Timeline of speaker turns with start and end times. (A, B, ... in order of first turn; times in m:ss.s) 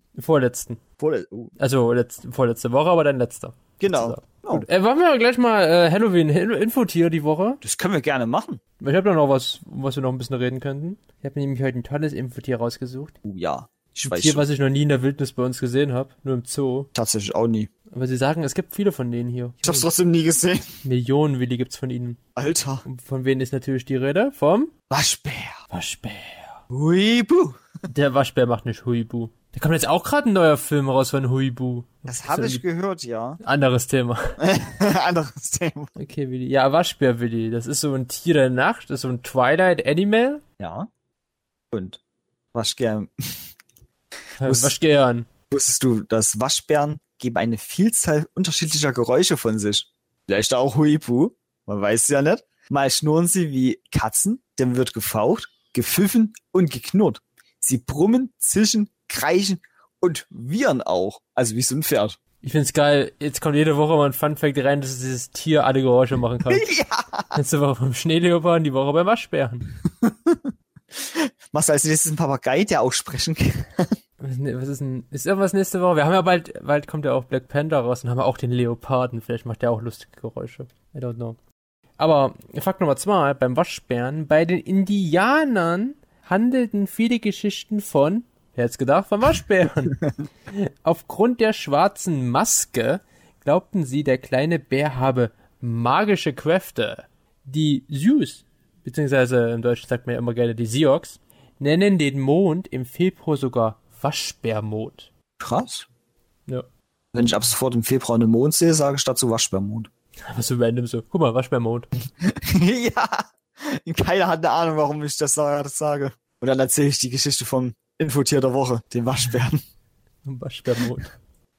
0:00.2-0:00.8 A
0:01.0-0:01.5 B
0:01.6-0:07.6 A
0:03.8-0:04.6 B
0:07.6-0:08.6 B
0:08.8-0:13.2 A
0:13.2-0:14.4 B
0:14.0-0:16.9 A
0:16.9-0:17.7 B
0:17.9-0:19.9 A
0:19.6-0:20.6 B
0:20.8-0:22.2 A
0:22.4-0:22.8 B
0:22.8-0:24.7 A
0:24.9-0:25.6 B
0:25.7-0:26.6 A
0:26.7-0:27.6 B
0:27.9-0:32.6 A
0:32.1-0:33.4 B
0:33.4-0:34.4 A
0:34.4-0:35.9 B
0:36.0-0:40.4 A
0:40.6-0:40.9 B
0:41.7-0:42.0 B
0:42.5-0:43.4 B
0:44.4-0:45.3 A
0:44.4-0:44.7 B
0:45.5-1:02.2 B
1:02.4-1:06.6 A
1:06.5-1:07.4 B
1:07.3-1:09.7 A
1:10.0-1:10.5 B
1:11.0-1:14.0 B
1:14.2-1:21.4 A
1:22.0-1:30.0 A
1:30.5-1:45.1 A
1:45.4-1:45.9 B
1:47.1-1:49.9 B
1:50.3-1:51.9 A
1:52.2-1:59.6 B
2:00.2-2:01.1 A